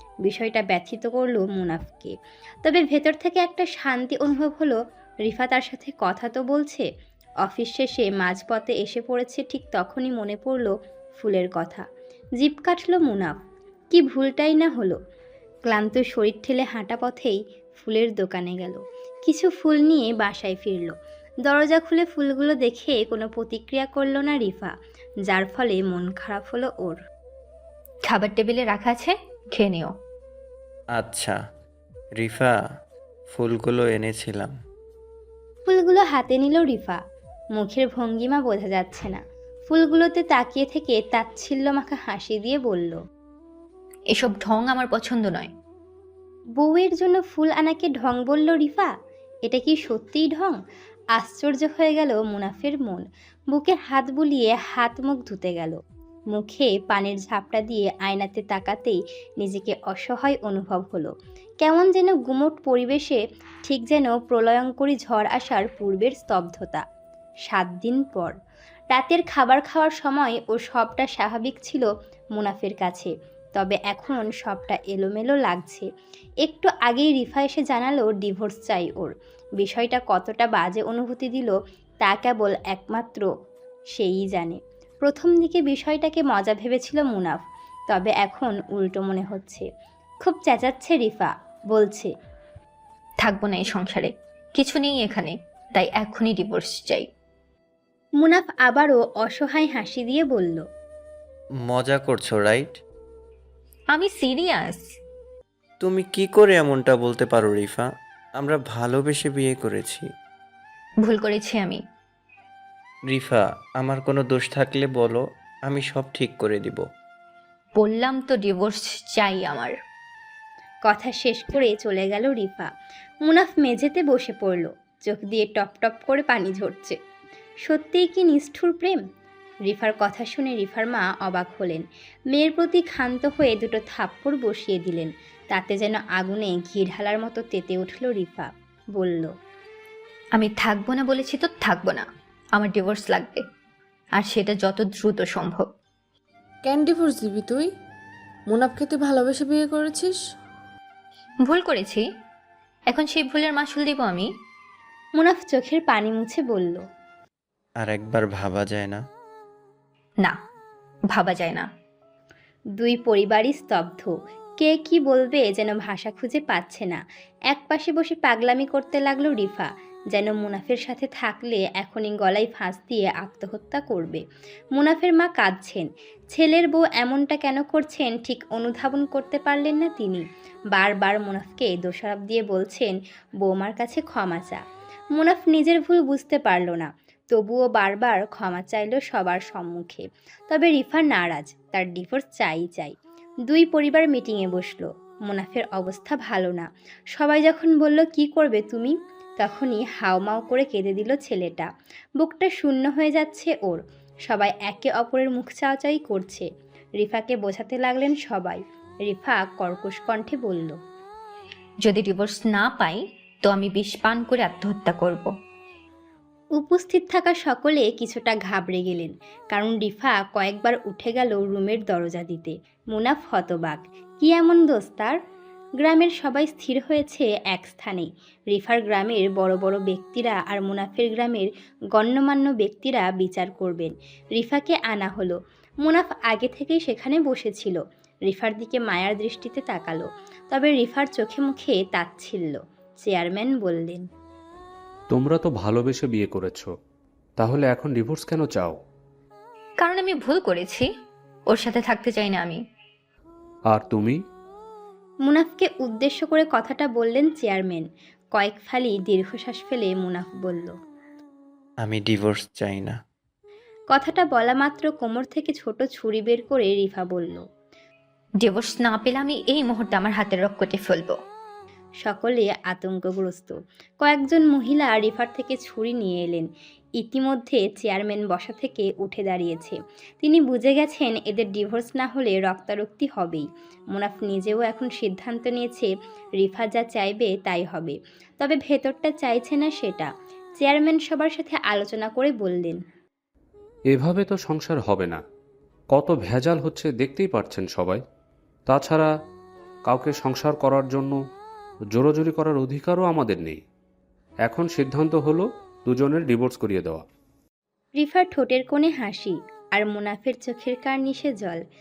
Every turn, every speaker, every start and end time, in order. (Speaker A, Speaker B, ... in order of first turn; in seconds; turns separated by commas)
Speaker A: 0.2-6.8, Speaker A: 7.4-11.8, Speaker A: 12.4-13.3, Speaker A: 13.9-15.0, Speaker A: 15.7-20.9, Speaker A: 21.5-24.7, Speaker A: 25.3-27.0, Speaker B: 28.1-29.9, Speaker C: 31.0-31.4, Speaker C: 32.2-32.6, Speaker C: 33.3-34.5, Speaker A: 35.7-37.0, Speaker A: 37.6-43.0, Speaker B: 44.1-45.5, Speaker A: 46.6-48.9, Speaker A: 49.5-50.6, Speaker A: 51.2-55.8, Speaker A: 56.3-66.8, Speaker A: 67.5-68.3, Speaker A: 68.9-75.9, Speaker A: 76.5-83.3, Speaker A: 84.0-89.7, Speaker A: 90.2-92.1, Speaker B: 93.2-97.1, Speaker A: 98.2-100.6, Speaker C: 101.7-102.7, Speaker B: 103.9-104.8, Speaker C: 105.8-107.9, Speaker C: 108.4-110.0, Speaker B: 111.0-111.8, Speaker C: 113.1-116.8, Speaker B: 117.8-119.7, Speaker A: 120.9-122.7, Speaker A: 123.2-127.0, Speaker A: 127.7-129.0, Speaker A: 129.7-139.3, Speaker B: 140.4-143.4, Speaker B: 144.2-145.7, Speaker D: 146.6-147.7, Speaker D: 148.5-150.2, Speaker B: 151.4-152.0, Speaker B: 152.9-154.3, Speaker A: 155.2-156.8, Speaker C: 157.8-159.0, Speaker B: 161.1-161.7, Speaker A: 162.8-167.0, Speaker A: 167.5-174.2, Speaker A: 174.8-184.6, Speaker A: 185.2-193.0, Speaker A: 193.5-201.7, Speaker A: 202.2-206.5, Speaker A: 207.0-210.8, Speaker B: 211.8-215.3, Speaker A: 216.6-225.2, Speaker A: 225.8-244.0, Speaker E: 245.2-246.7, Speaker E: 247.4-248.8, Speaker B: 249.8-250.9, Speaker B: 251.5-252.6, Speaker E: 253.7-254.2, Speaker A: 255.3-257.9, Speaker A: 258.4-260.7, Speaker C: 261.8-263.0, Speaker A: 263.9-267.4, Speaker B: 268.4-271.2, Speaker A: 272.1-276.5, Speaker A: 277.0-292.8, Speaker E: 294.0-295.2, Speaker E: 296.0-298.0, Speaker E: 298.8-299.1, Speaker E: 299.9-301.2, Speaker E: 302.0-303.6, Speaker E: 304.5-307.0, Speaker A: 308.0-311.6